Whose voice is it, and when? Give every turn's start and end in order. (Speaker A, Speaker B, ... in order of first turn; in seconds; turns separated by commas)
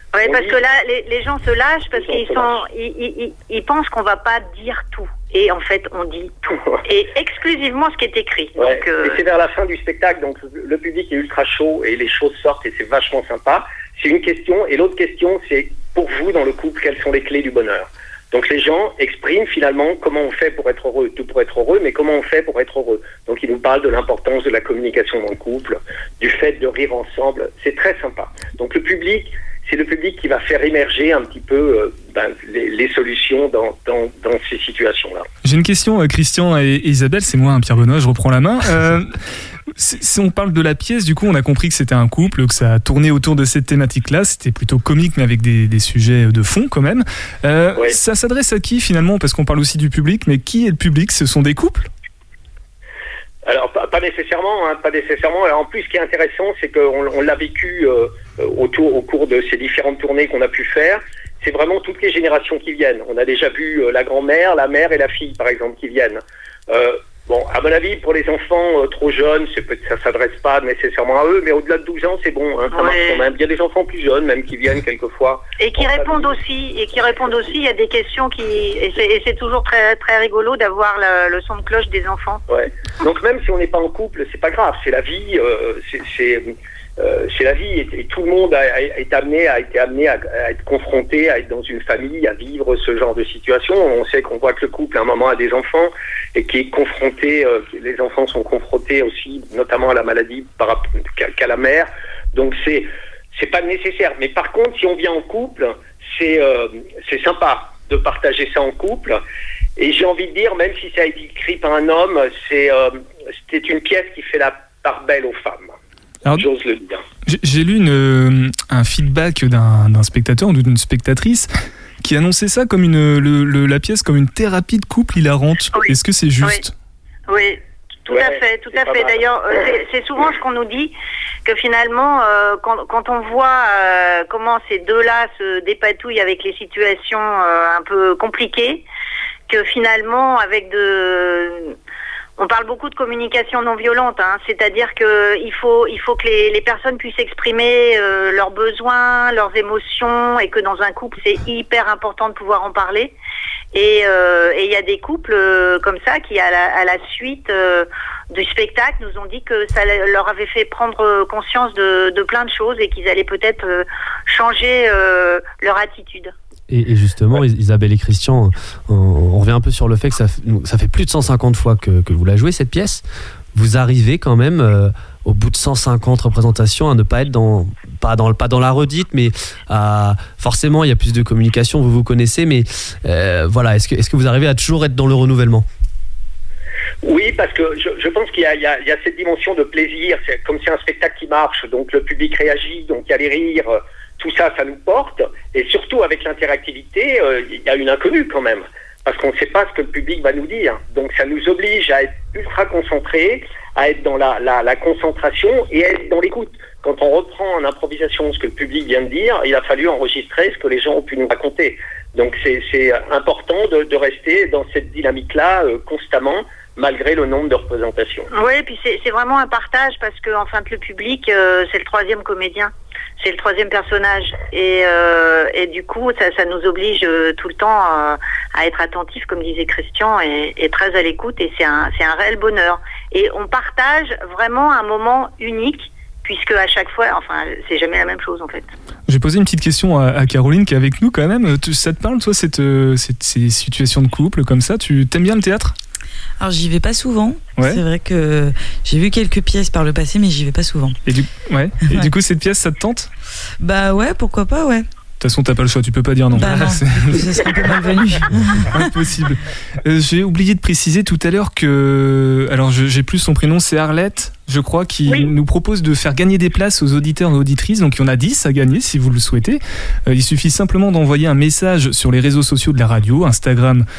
Speaker A: 0.1-6.3, Speaker B: 0.2-0.6, Speaker B: 1.9-2.6, Speaker B: 6.5-6.8, Speaker A: 6.9-9.2, Speaker B: 8.6-35.2, Speaker C: 35.4-39.2, Speaker C: 39.8-51.9, Speaker B: 53.5-76.3, Speaker A: 72.7-73.2, Speaker A: 75.6-82.4, Speaker B: 82.5-109.2, Speaker B: 109.8-115.7, Speaker B: 116.3-117.0, Speaker C: 117.2-121.5, Speaker C: 122.0-126.7, Speaker A: 125.7-126.6, Speaker A: 127.3-130.9, Speaker B: 128.1-129.2, Speaker A: 131.4-138.8, Speaker A: 139.5-141.8, Speaker A: 142.4-153.1, Speaker A: 153.7-166.3, Speaker D: 166.7-173.0, Speaker D: 173.5-185.7, Speaker B: 187.0-218.3, Speaker A: 218.3-238.7, Speaker C: 239.1-245.8, Speaker E: 246.4-251.0, Speaker C: 251.1-253.1, Speaker E: 253.6-254.8, Speaker C: 255.2-257.4, Speaker E: 256.3-258.7, Speaker C: 258.7-273.9, Speaker A: 265.1-265.3